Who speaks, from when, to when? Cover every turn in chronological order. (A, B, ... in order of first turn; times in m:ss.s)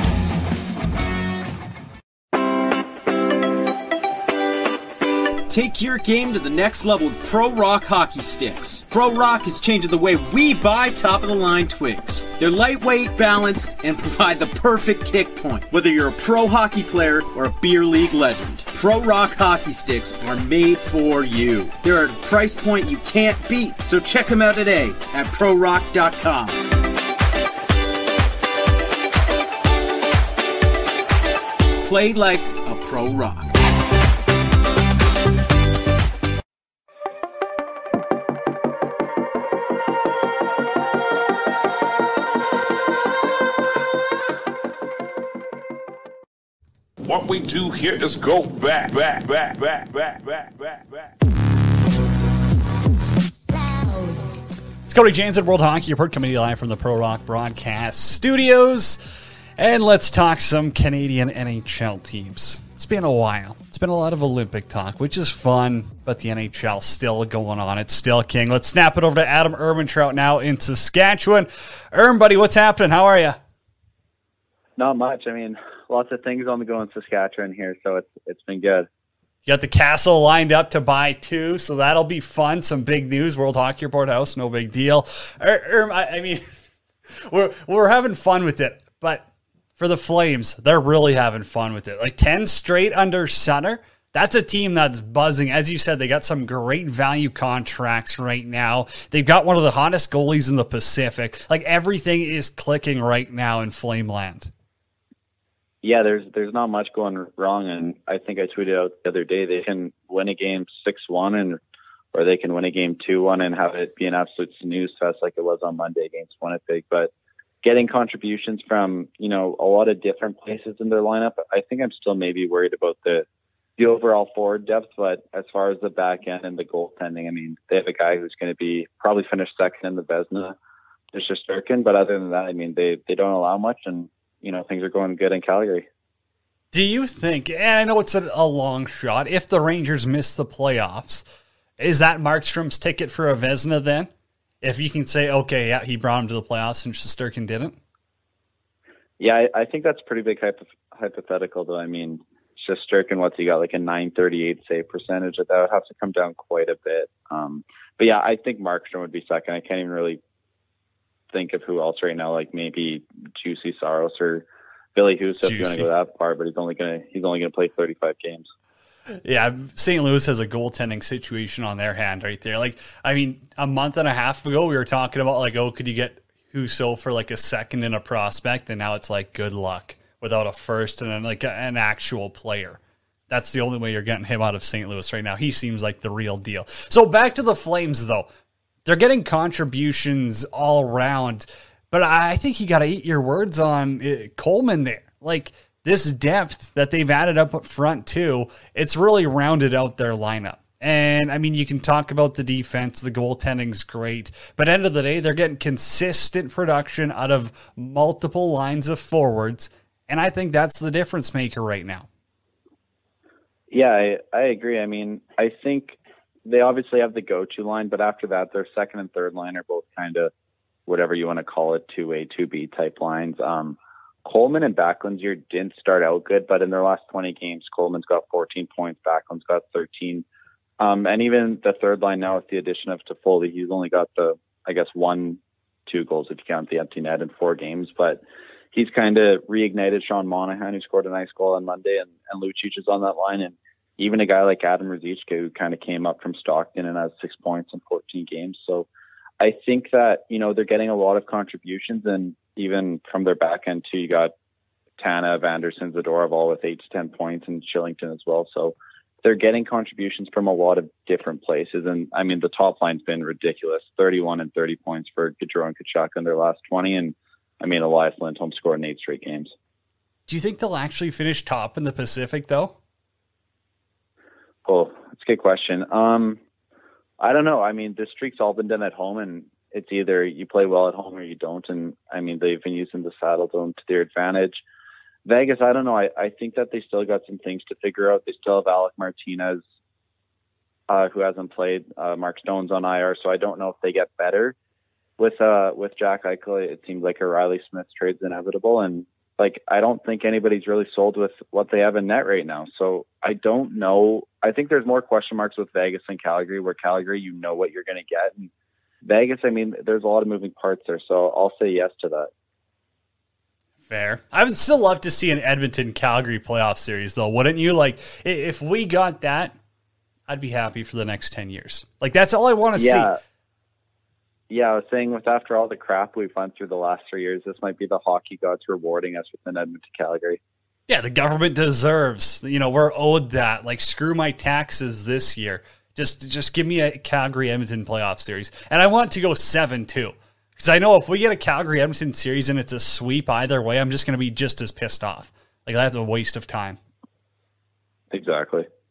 0:05.5-0:26.6 A
0:31.8-0:33.5 A
0:47.0-0:51.1 B
0:54.9-0:59.0 C
0:59.6-1:13.4 C
1:14.8-1:18.9 D
1:19.5-1:26.4 C
1:27.1-1:29.3 C
1:29.8-1:44.5 C
1:45.8-1:51.6 D
1:52.1-1:57.1 D
1:57.6-2:03.3 D
2:03.8-2:10.6 D
2:11.1-2:15.9 D
2:16.7-2:21.2 C
2:21.8-2:24.1 C
2:24.6-2:27.8 C
2:29.2-2:40.2 D
2:41.3-2:48.5 D
2:45.4-2:45.9 C
2:49.1-3:08.3 C
3:08.8-3:32.1 C
3:33.7-3:40.3 D
3:40.9-3:50.2 D
3:50.8-3:58.2 D
3:58.7-4:08.9 D
4:09.4-4:14.3 D
4:15.0-4:29.5 D
4:30.3-4:32.8 C
4:34.6-4:36.4 D
4:37.2-4:44.6 D
4:45.3-4:49.6 D
4:50.9-4:54.6 D
4:55.2-5:08.5 D
5:09.0-5:12.3 D
5:13.9-5:19.6 C
5:20.3-5:23.1 C
5:22.8-5:23.2 D
5:24.5-5:30.4 D
5:30.9-5:46.8 C
5:48.1-5:48.7 D